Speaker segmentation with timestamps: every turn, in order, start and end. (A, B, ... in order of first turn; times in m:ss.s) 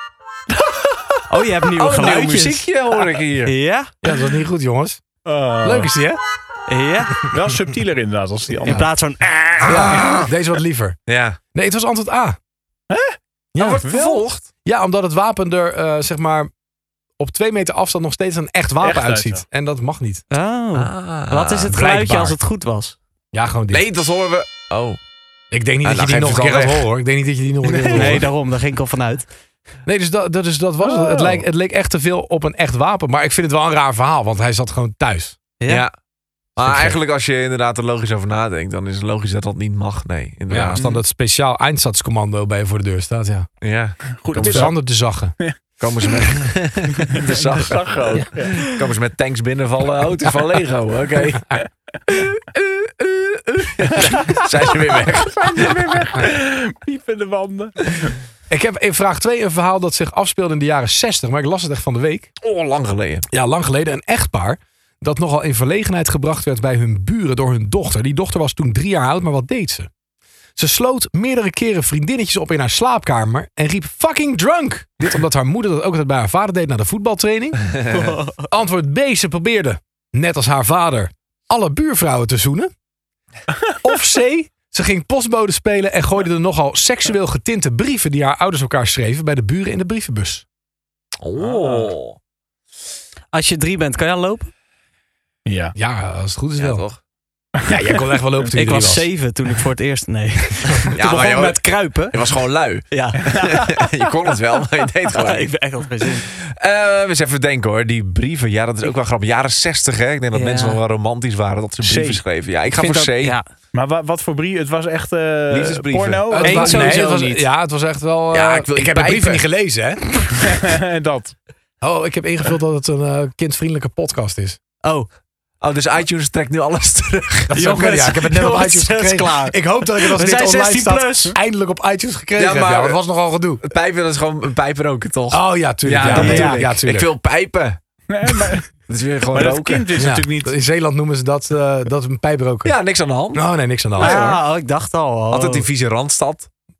0:00.5-0:01.2 A
0:01.3-0:02.7 B
0:01.7-0:03.5 C
0:03.4-0:03.9 B
0:04.0-0:05.0 D
0:05.2-0:05.9 A
0:05.6-0:06.2 D
0:06.7-0:07.3 B
0:07.3-0:08.9 A
0:08.6-0:10.0 B
0:09.6-0:10.3 C
0:09.6-0:11.0 D
0:11.1-0:11.4 C
0:11.5-0:12.4 D
0:12.9-0:13.2 A
0:13.5-0:13.9 D
0:13.6-0:14.4 C
0:13.8-0:14.2 A
0:14.6-0:16.5 D
0:17.2-0:20.2 D
0:18.8-0:19.4 A
0:20.3-0:23.0 B
0:20.7-0:21.8 C
0:21.7-0:22.3 D
0:23.3-0:23.8 D
0:23.7-0:25.0 C
0:25.5-0:28.3 D
0:25.8-0:26.9 C
0:27.6-0:28.3 A
0:27.9-0:29.2 B
0:29.8-0:35.4 D
0:30.8-0:31.4 A
0:35.6-0:35.8 B
0:35.6-0:35.9 C
0:36.6-0:40.8 C
0:36.6-0:37.0 D
0:40.5-0:43.5 D
0:40.7-0:41.0 A
0:43.6-0:44.7 C
0:44.2-0:44.7 A
0:44.3-0:45.4 D
0:45.4-0:46.4 A
0:45.8-0:56.1 C
0:46.9-0:48.7 A
0:54.0-0:58.2 A
0:58.5-1:02.3 D
1:02.4-1:03.3 C
1:03.3-1:09.9 D
1:10.6-1:17.7 D
1:17.9-1:18.4 B
1:18.4-1:22.7 D
1:23.8-1:30.4 D
1:31.2-1:32.2 C
1:31.4-1:31.9 A
1:33.3-1:34.5 B
1:35.4-1:35.7 A
1:35.7-1:36.8 D
1:36.6-1:37.0 C
1:37.6-1:37.9 A
1:37.7-1:39.1 D
1:38.5-1:42.2 B
1:41.0-1:45.5 C
1:42.9-1:43.8 B
1:45.0-1:46.3 B
1:46.0-1:53.4 C
1:50.3-1:50.8 B
1:51.8-1:52.2 A
1:52.7-1:53.5 B
1:53.7-1:57.0 A
1:55.5-1:56.8 C
1:56.3-2:00.0 D
1:56.3-1:57.4 B
1:58.3-1:59.4 C
2:00.4-2:01.3 A
2:01.8-2:04.6 D
2:05.6-2:08.1 C
2:07.5-2:13.6 D
2:07.5-2:11.4 B
2:12.4-2:13.0 C
2:13.6-2:17.8 C
2:15.3-2:17.1 D
2:16.1-2:16.7 B
2:18.1-2:18.7 A
2:18.9-2:20.0 C
2:19.3-2:20.5 A
2:20.0-2:22.7 D
2:22.6-2:23.4 C
2:23.3-2:24.2 D
2:24.0-2:24.4 A
2:24.0-2:25.6 B
2:25.3-2:26.5 C